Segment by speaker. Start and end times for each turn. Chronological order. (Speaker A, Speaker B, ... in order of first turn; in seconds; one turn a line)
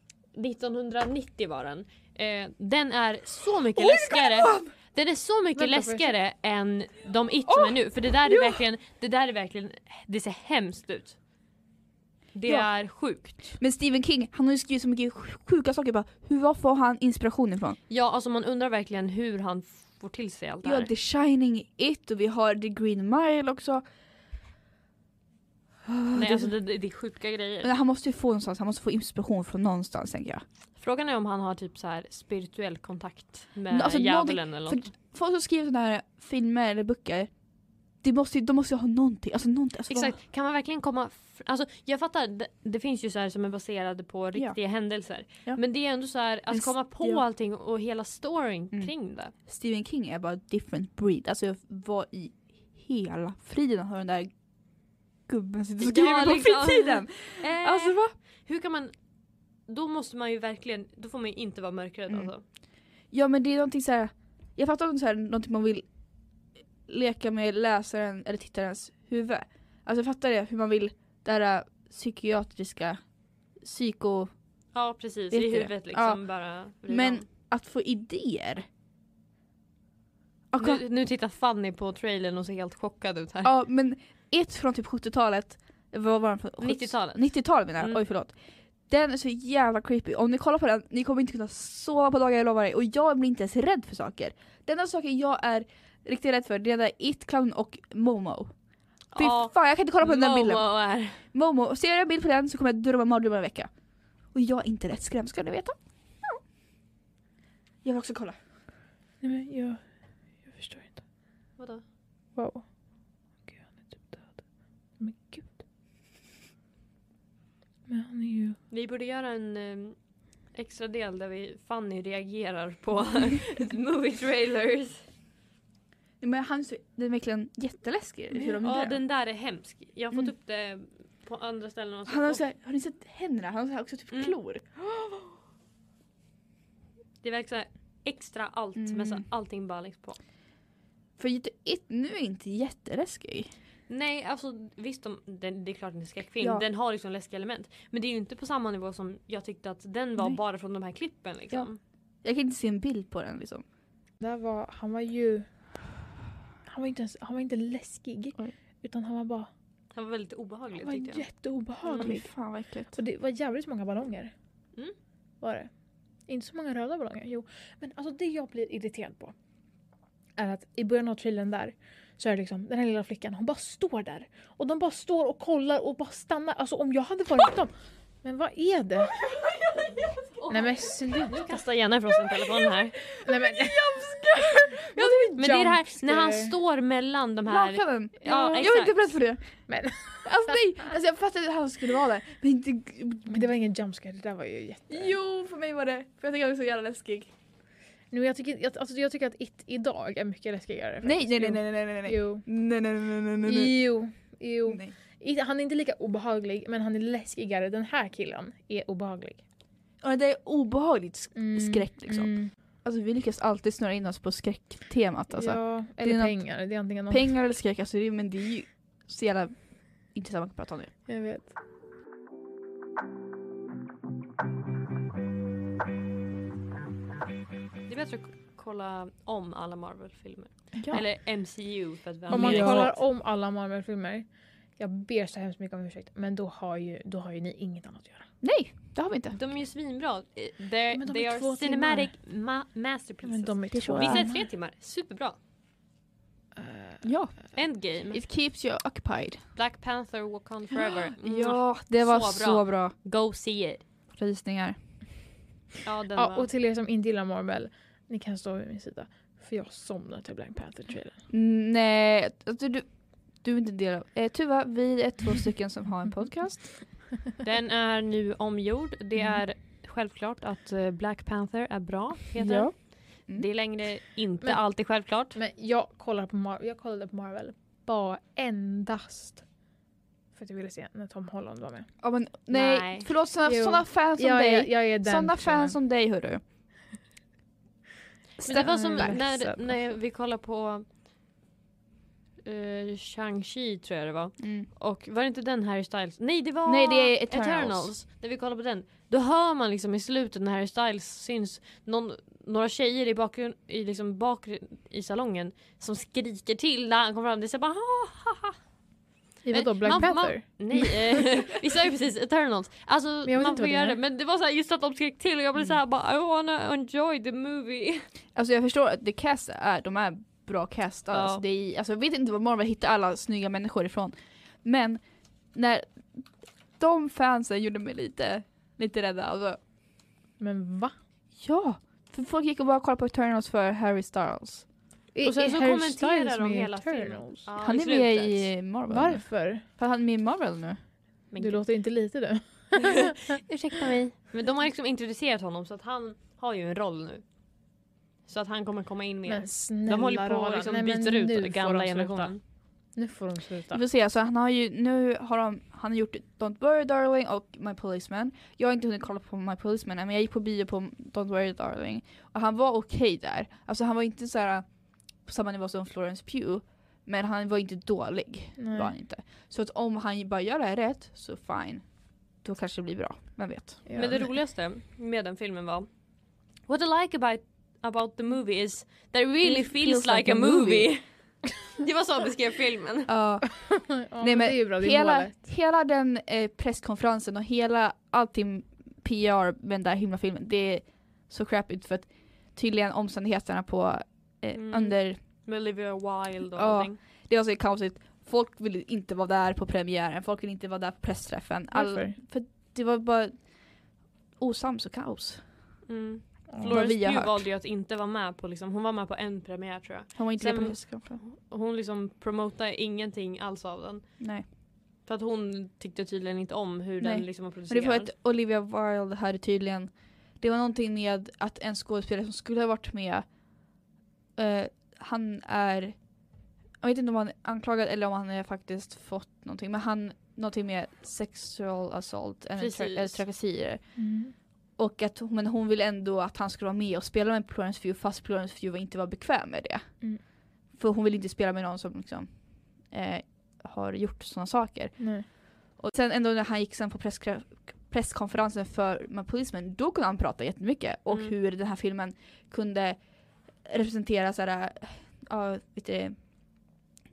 Speaker A: 0.3-11.2
Speaker B: 3.8-4.7
Speaker C: 5.5-6.1
Speaker B: 7.5-8.6
Speaker A: 12.3-13.6
Speaker B: 13.6-17.8
Speaker A: 17.9-20.9
Speaker B: 20.6-23.8
Speaker B: 25.8-26.5
Speaker A: 26.1-27.7
Speaker B: 27.6-30.4
Speaker A: 30.8-34.9
Speaker B: 33.7-37.3
Speaker B: 37.8-40.1
Speaker A: 39.9-49.3
Speaker B: 46.5-47.2
Speaker B: 49.5-54.3
Speaker B: 55.3-58.1
Speaker A: 55.8-58.9
Speaker A: 59.6-62.4
Speaker B: 63.0-65.9
Speaker B: 66.8-73.0
Speaker B: 73.5-74.3
Speaker A: 74.7-77.2
Speaker B: 75.3-76.2
Speaker B: 76.8-78.7
Speaker B: 80.5-80.8
Speaker A: 80.6-83.5
Speaker B: 83.4-98.5
Speaker A: 86.6-88.0
Speaker A: 99.1-101.2
Speaker B: 99.1-100.7
Speaker B: 101.3-103.7
Speaker B: 104.3-106.4
Speaker B: 107.8-108.3
Speaker C: 109.2-109.8
Speaker C: 110.4-111.0
Speaker A: 111.6-111.8
Speaker C: 112.3-112.7
Speaker C: 113.5-114.4
Speaker C: 115.0-115.5
Speaker C: 117.9-118.6
Speaker A: 118.7-120.0
Speaker A: 120.5-125.0
Speaker B: 126.2-129.0
Speaker A: 128.6-132.4
Speaker B: 132.1-134.7
Speaker A: 134.1-134.3
Speaker A: 137.2-140.2
Speaker B: 138.8-139.2
Speaker B: 141.2-143.5
Speaker A: 143.9-151.8
Speaker B: 146.4-146.6
Speaker B: 152.2-153.6
Speaker C: 154.2-155.5
Speaker C: 156.7-159.5
Speaker A: 159.9-161.3
Speaker C: 160.8-162.3
Speaker A: 161.8-162.1
Speaker B: 162.0-162.9
Speaker C: 162.9-164.3
Speaker C: 165.4-165.7
Speaker C: 166.3-169.3
Speaker C: 170.4-179.2
Speaker A: 180.4-183.0
Speaker C: 180.5-181.6
Speaker B: 183.0-185.4
Speaker C: 183.2-186.5
Speaker A: 185.4-188.9
Speaker B: 187.5-189.5
Speaker C: 189.7-190.6
Speaker B: 190.2-193.5
Speaker C: 193.3-195.2
Speaker B: 194.9-197.3
Speaker C: 198.1-202.4
Speaker B: 201.0-203.7
Speaker C: 203.4-209.4
Speaker B: 204.7-204.9
Speaker B: 210.0-220.9
Speaker C: 211.3-212.5
Speaker C: 215.3-217.3
Speaker C: 221.1-221.5
Speaker A: 227.9-233.0
Speaker B: 230.8-231.0
Speaker B: 232.3-232.9
Speaker C: 232.3-238.3
Speaker B: 238.4-239.4
Speaker A: 239.3-245.4
Speaker C: 240.9-242.1
Speaker C: 243.2-244.5
Speaker B: 243.7-244.2
Speaker C: 246.6-247.0
Speaker B: 247.0-249.5
Speaker A: 247.5-248.2
Speaker A: 249.6-253.8
Speaker B: 250.8-252.9
Speaker B: 254.1-254.8
Speaker A: 255.8-256.5
Speaker C: 256.1-261.2
Speaker B: 261.3-267.0
Speaker A: 267.4-275.4
Speaker B: 272.4-273.4
Speaker C: 274.4-279.4
Speaker C: 280.3-281.9
Speaker B: 282.0-286.4
Speaker A: 282.5-283.1
Speaker C: 283.4-285.8
Speaker B: 288.4-289.1
Speaker A: 288.4-290.9
Speaker C: 288.5-289.8
Speaker A: 292.4-308.6
Speaker B: 294.4-294.7
Speaker B: 296.6-297.9
Speaker C: 309.4-310.9
Speaker A: 309.5-318.1
Speaker C: 313.2-314.0
Speaker B: 318.3-329.6
Speaker A: 321.1-321.4
Speaker C: 330.4-330.9
Speaker B: 331.4-334.7
Speaker C: 335.1-337.5
Speaker A: 335.2-338.6
Speaker B: 337.6-340.8
Speaker C: 338.9-339.6
Speaker A: 341.3-341.6
Speaker C: 341.4-343.2
Speaker A: 343.5-347.2
Speaker A: 348.2-352.4
Speaker C: 349.3-353.8
Speaker B: 353.7-374.2
Speaker C: 368.6-368.9
Speaker C: 373.9-374.2
Speaker A: 373.9-383.1
Speaker B: 379.4-380.9
Speaker B: 383.1-395.2
Speaker C: 383.6-385.3
Speaker A: 394.5-397.0
Speaker B: 396.5-405.8
Speaker C: 401.7-402.2
Speaker A: 405.9-418.1
Speaker C: 406.5-406.8
Speaker B: 406.6-407.4
Speaker B: 410.1-411.2
Speaker B: 414.2-414.4
Speaker B: 417.0-423.3
Speaker B: 424.3-456.8
Speaker A: 432.6-433.2
Speaker C: 433.9-434.3
Speaker C: 445.0-445.2
Speaker A: 451.1-451.3